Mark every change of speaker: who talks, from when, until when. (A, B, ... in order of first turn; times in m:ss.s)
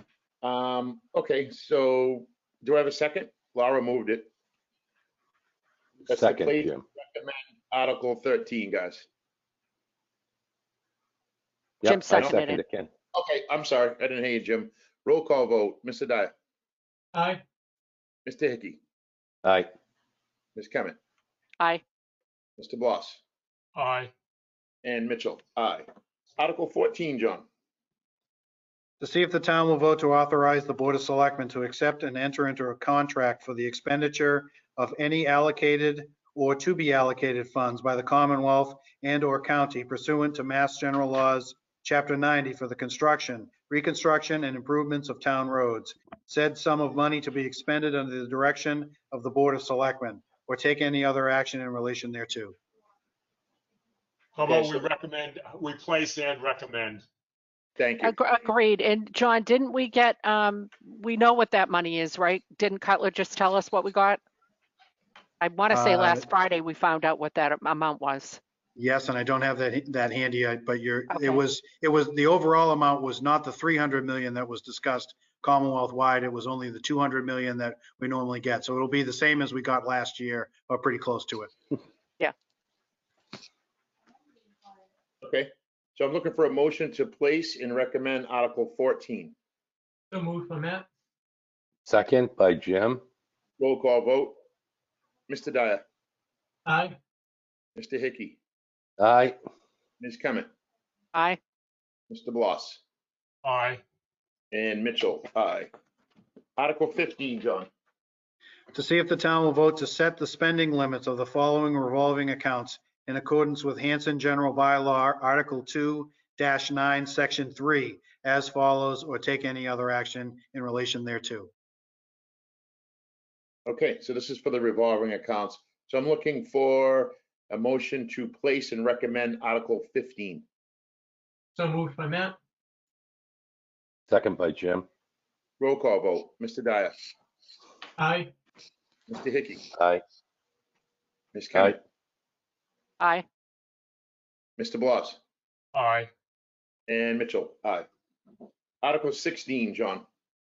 0:00.4-0:04.3 A
0:06.1-0:09.1 A
0:06.1-0:06.8 B
0:11.8-0:12.9 B
0:11.8-0:12.6 C
0:13.1-0:16.3 A
0:17.1-0:17.4 D
0:18.3-0:18.8 A
0:19.4-0:19.7 B
0:20.6-0:21.0 A
0:22.6-0:23.2 A
0:23.8-0:24.1 E
0:24.8-0:25.9 A
0:26.4-0:27.5 A
0:29.0-0:52.6 F
0:54.4-0:57.0 E
0:54.5-0:54.8 A
0:57.8-0:58.2 A
0:58.0-1:04.2 C
1:05.4-1:08.4 C
1:05.7-1:06.3 F
1:08.8-1:21.5 F
1:11.1-1:11.4 C
1:25.2-1:29.4 A
1:30.1-1:30.9 D
1:31.9-1:33.0 B
1:33.6-1:34.4 A
1:35.3-1:35.8 A
1:36.7-1:37.0 D
1:37.8-1:38.4 A
1:39.0-1:39.4 B
1:40.0-1:40.5 A
1:41.1-1:41.4 C
1:42.1-1:42.8 A
1:43.4-1:43.8 E
1:44.5-1:45.7 A
1:46.6-1:47.7 A
1:48.7-2:01.5 F
2:03.7-2:10.5 A
2:11.6-2:12.4 D
2:14.1-2:14.9 B
2:15.6-2:17.1 A
2:18.0-2:18.3 D
2:19.1-2:19.6 A
2:19.8-2:20.0 B
2:21.3-2:21.8 A
2:23.0-2:23.2 C
2:24.6-2:25.2 A
2:25.7-2:26.1 E
2:26.9-2:27.9 A
2:28.8-2:30.1 A